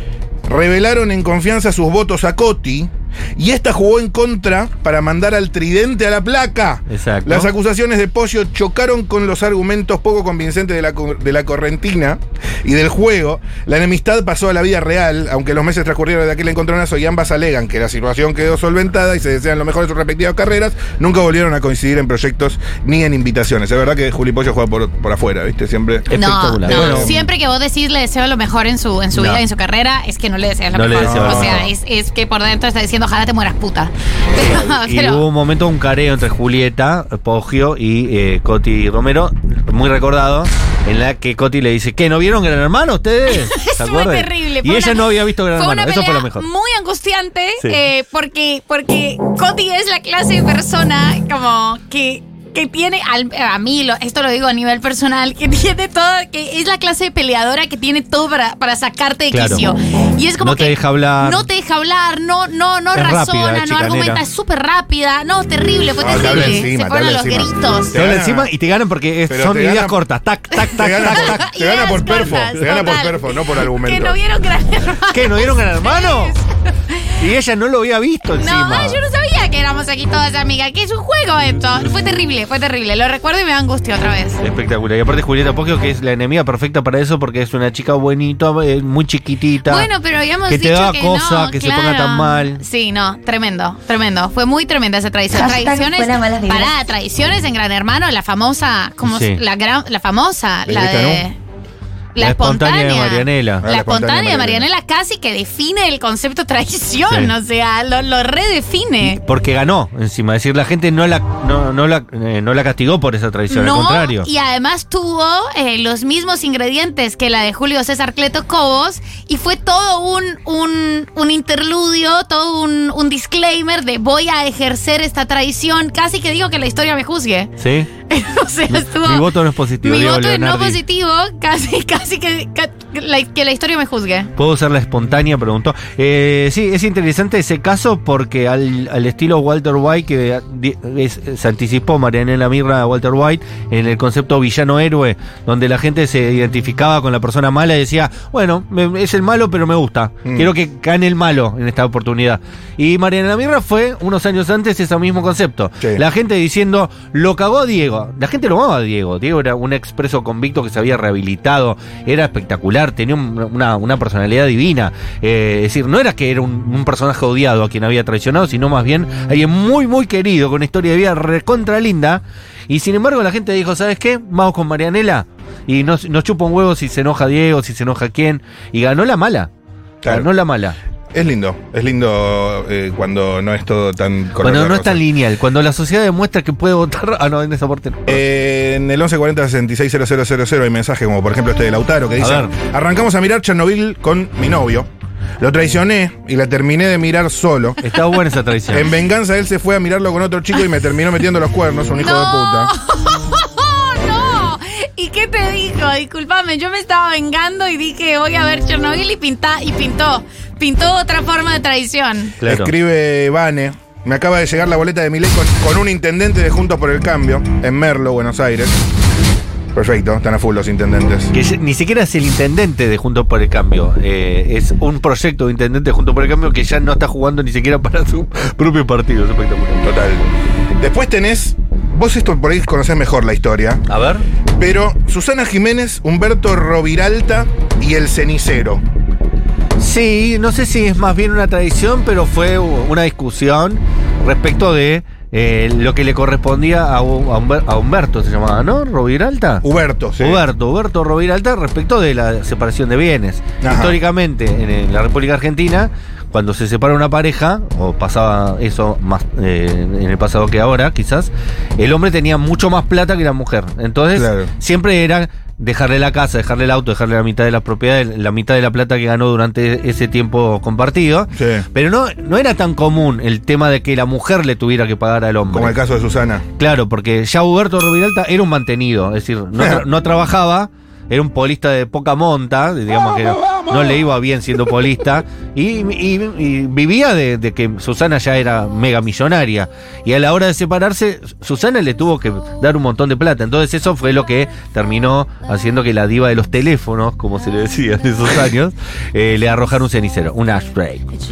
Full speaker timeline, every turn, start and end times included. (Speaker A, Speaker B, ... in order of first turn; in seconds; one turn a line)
Speaker A: 0.5-26.1
Speaker B: 6.9-7.5
Speaker B: 26.1-27.1
Speaker C: 26.1-35.2
Speaker A: 26.6-27.3
Speaker B: 29.1-29.4
Speaker B: 30.7-31.6
Speaker A: 31.0-31.7
Speaker B: 34.4-46.4
Speaker C: 43.5-67.9
Speaker B: 59.3-59.6
Speaker B: 60.4-61.5
Speaker B: 62.9-64.2
Speaker A: 66.0-68.5
Speaker B: 66.1-66.7
Speaker B: 67.9-71.4
Speaker A: 69.3-70.0
Speaker C: 70.6-77.1
Speaker A: 70.7-74.2
Speaker B: 75.1-76.4
Speaker B: 77.2-79.0
Speaker C: 78.4-84.4
Speaker B: 84.4-89.9
Speaker C: 89.7-101.4
Speaker B: 90.5-92.6
Speaker B: 99.0-99.4
Speaker A: 100.7-101.2
Speaker C: 102.1-109.2
Speaker B: 102.2-103.6
Speaker A: 103.6-104.7
Speaker B: 109.0-114.3
Speaker C: 113.5-127.5
Speaker B: 127.6-127.9
Speaker C: 128.1-129.3
Speaker B: 128.7-130.8
Speaker C: 129.8-134.3
Speaker B: 134.4-179.5
Speaker A: 180.0-180.3
Speaker B: 180.0-180.8
Speaker A: 181.1-185.0
Speaker B: 184.4-188.2
Speaker A: 188.1-194.9
Speaker B: 192.2-192.5
Speaker A: 195.4-197.9
Speaker B: 197.8-198.9
Speaker A: 198.7-202.7
Speaker C: 202.0-212.3
Speaker B: 212.4-212.7
Speaker A: 212.4-218.8
Speaker A: 219.7-221.3
Speaker B: 221.3-229.8
Speaker A: 229.8-233.8
Speaker B: 233.9-234.2
Speaker A: 234.6-238.8
Speaker B: 239.8-249.6
Speaker A: 249.6-250.4
Speaker B: 250.2-275.8
Speaker A: 253.6-254.0
Speaker A: 264.1-264.5
Speaker A: 271.4-271.6
Speaker A: 275.5-276.4
Speaker B: 276.6-301.1